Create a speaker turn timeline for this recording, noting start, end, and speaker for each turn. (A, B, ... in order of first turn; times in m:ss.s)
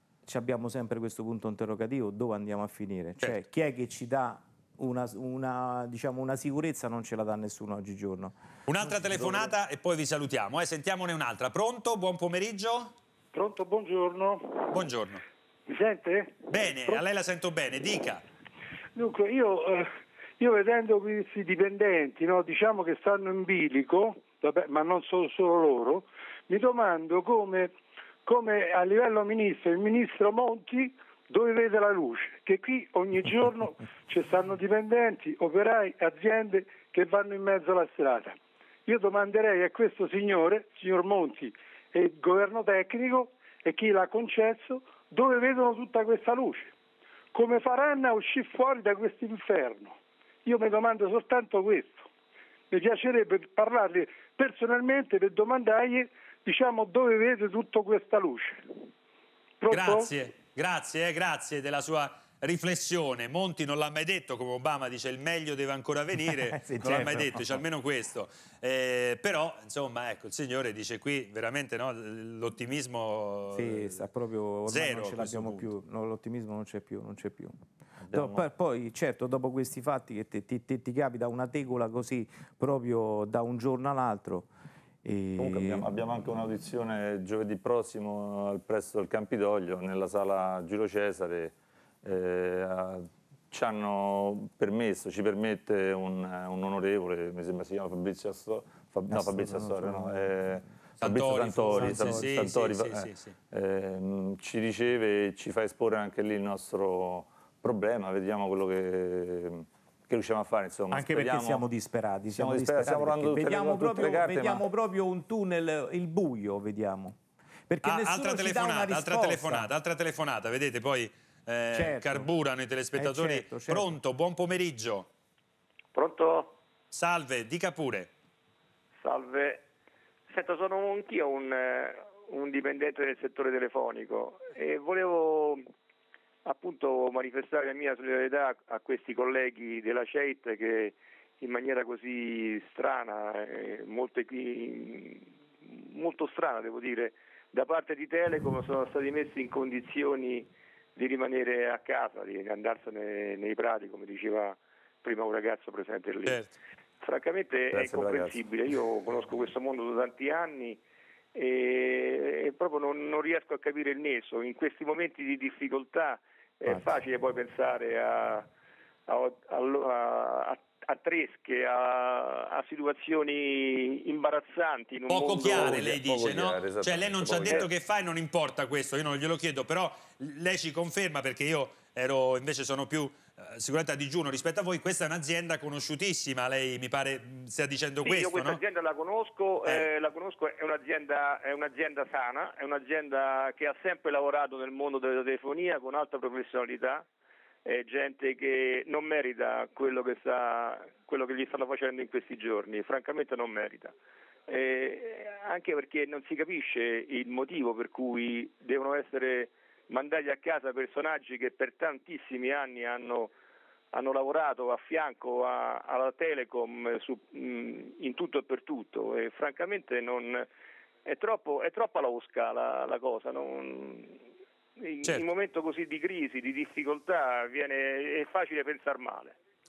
0:00.2-0:09.5 A
0:08.7-0:12.9 B
0:13.3-0:14.8 C
0:14.7-0:15.2 B
0:15.7-0:17.0 C
0:16.5-0:18.2 B
0:19.0-0:27.7 C
0:28.2-0:46.7 C
0:47.3-0:52.1 C
0:52.7-0:58.7 C
0:59.6-1:00.1 C
0:59.7-1:14.0 B
1:06.2-1:07.6 A
1:13.5-1:17.5 A
1:14.7-1:15.7 B
1:18.0-1:18.5 D
1:18.1-1:24.5 A
1:25.0-1:25.9 A
1:25.4-1:51.6 D
1:39.1-1:40.3 A
1:41.0-1:43.3 B
1:41.7-1:42.3 A
1:50.9-1:57.1 A
1:52.3-1:54.6 D
1:57.7-1:59.7 A
1:57.8-2:05.1 B
2:01.7-2:02.3 A
2:02.9-2:04.0 A
2:05.9-2:06.6 E
2:06.9-2:08.1 B
2:09.0-2:09.6 E
2:10.3-2:15.6 E
2:16.4-2:40.8 E
2:36.2-2:36.5 B
2:37.7-2:38.4 D
2:41.3-2:48.5 E
2:49.1-2:55.8 E
2:55.1-3:08.6 B
2:55.4-2:57.7 D
3:08.0-3:17.1 E
3:17.6-3:23.9 E
3:24.5-3:33.3 E
3:33.9-3:40.5 E
3:41.0-3:44.2 E
3:44.8-3:49.4 E